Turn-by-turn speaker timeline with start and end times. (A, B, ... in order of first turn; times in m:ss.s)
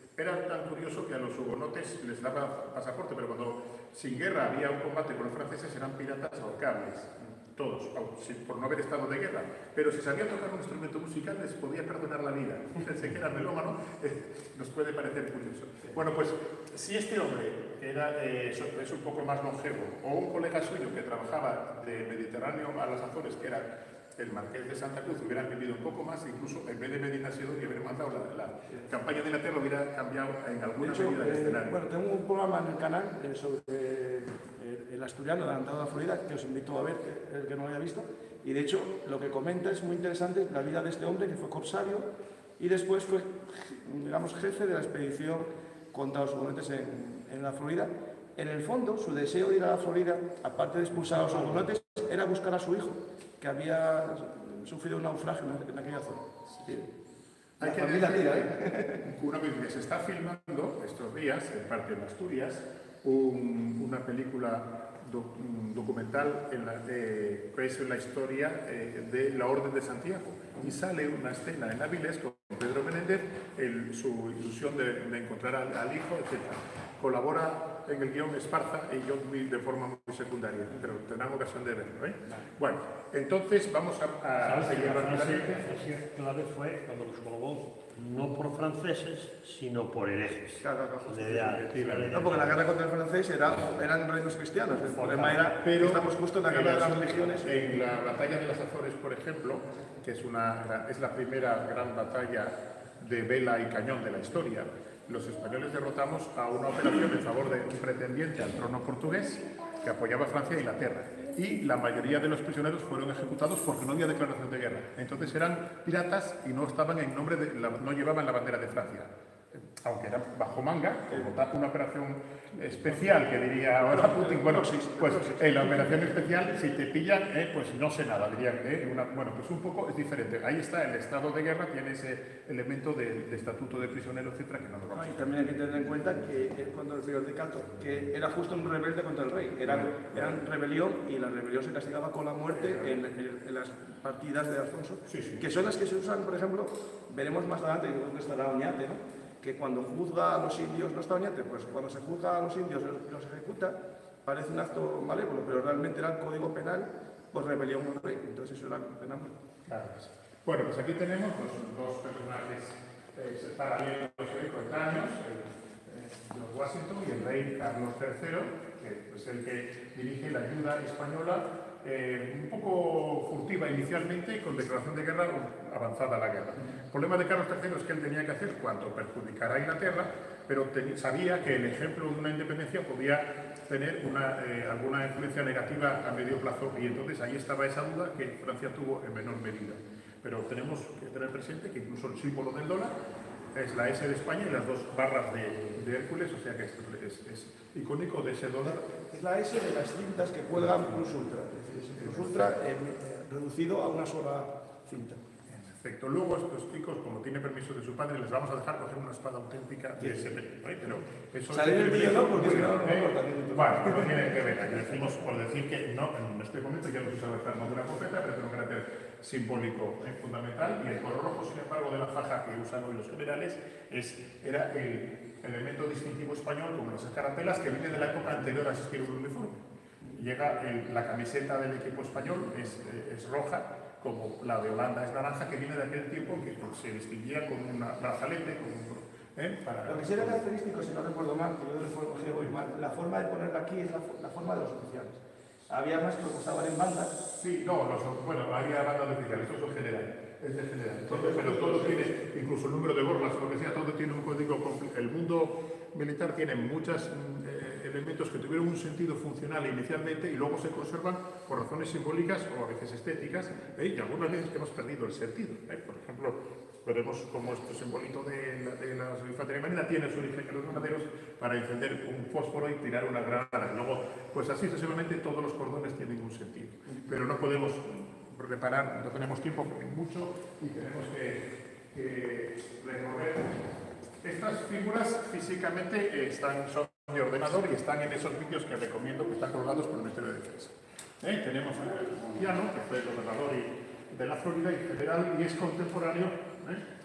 0:00.2-0:31.7 A
0:30.8-0:56.9 B
0:57.6-1:25.7 A
0:57.6-0:59.1 B
1:24.4-1:32.6 C
1:30.6-1:37.6 B
1:31.5-1:32.3 A
1:35.0-1:35.4 C
1:35.6-2:15.4 A
2:03.9-2:06.2 B
2:14.9-2:39.4 B
2:19.7-2:20.3 A
2:22.6-2:23.0 A
2:25.1-2:25.4 A
2:39.7-3:13.0 A
3:13.5-3:18.8 A
3:18.9-3:25.2 B
3:22.0-3:22.5 A
3:25.5-3:49.6 A
3:31.5-3:34.3 B
3:50.2-4:00.4 A
3:59.8-4:07.1 B
4:07.2-4:43.7 A
4:11.1-4:12.2 B
4:44.2-4:56.8 A